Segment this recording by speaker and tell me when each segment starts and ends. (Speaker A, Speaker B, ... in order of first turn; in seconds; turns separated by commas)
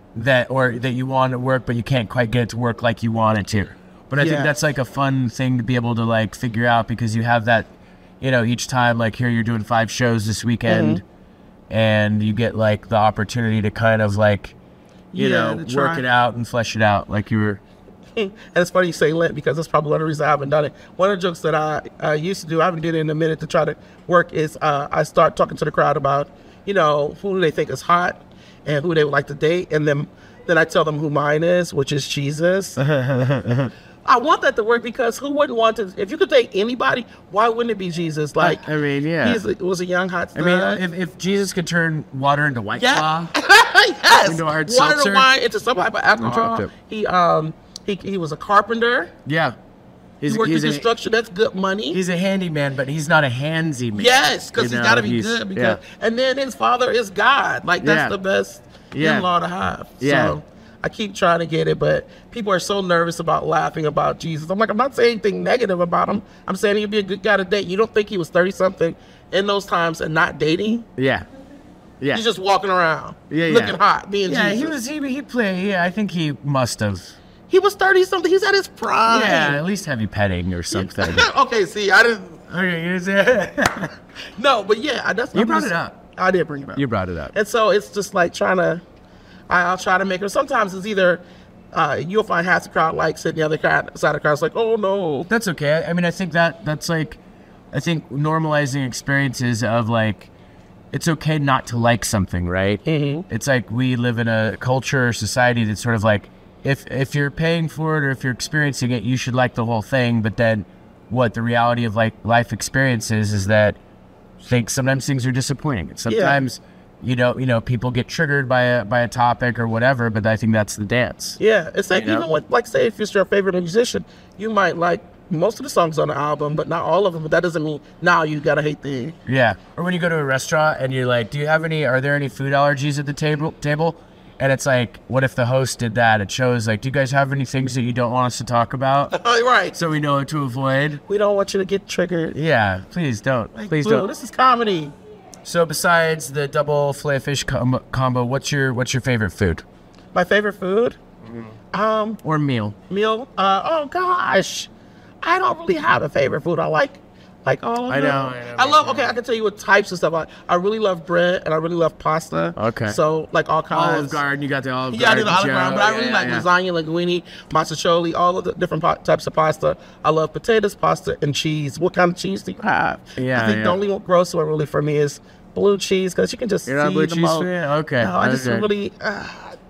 Speaker A: 0.1-7.7, Speaker B: 4.2-4.5, Speaker A: 8.2-11.0, Speaker B: 10.7-11.0, Speaker A: 11.7-14.6, Speaker B: 15.1-16.0, Speaker A: 15.1-17.6, Speaker B: 18.1-32.8, Speaker A: 32.8-33.7, Speaker B: 34.0-38.7, Speaker A: 38.4-39.4, Speaker B: 39.2-40.8, Speaker A: 40.3-43.3, Speaker B: 42.8-49.1, Speaker A: 44.2-45.3, Speaker A: 46.2-46.7, Speaker A: 49.2-49.5, Speaker A: 50.2-50.8, Speaker B: 50.2-52.0, Speaker A: 51.9-55.8, Speaker B: 53.9-70.9, Speaker A: 57.8-58.1, Speaker A: 58.9-59.3, Speaker A: 60.0-60.4, Speaker A: 71.0-71.3, Speaker B: 72.1-74.7, Speaker A: 73.3-77.2, Speaker B: 77.5-79.6, Speaker A: 79.1-81.3, Speaker B: 80.7-82.4, Speaker A: 82.5-83.9, Speaker B: 84.3-88.8, Speaker A: 85.3-86.0, Speaker A: 86.7-87.3, Speaker B: 89.5-91.2, Speaker B: 91.7-95.3, Speaker A: 95.3-97.2, Speaker A: 97.7-100.3, Speaker A: 100.9-113.8, Speaker B: 102.8-103.2, Speaker A: 114.4-121.4, Speaker B: 116.1-116.4, Speaker B: 121.4-129.1, Speaker A: 121.9-122.3, Speaker A: 129.2-139.1, Speaker B: 139.1-139.8, Speaker A: 139.7-141.0, Speaker B: 141.1-142.3, Speaker A: 142.3-144.1, Speaker B: 143.5-144.9, Speaker A: 145.4-149.6, Speaker B: 150.1-151.0, Speaker A: 151.3-151.5, Speaker B: 151.7-152.2, Speaker A: 152.2-152.8, Speaker B: 152.9-154.7, Speaker B: 155.2-164.2, Speaker A: 157.9-159.2, Speaker A: 162.6-163.0, Speaker A: 163.7-166.5, Speaker B: 164.9-179.6, Speaker A: 173.2-173.8, Speaker A: 176.7-178.7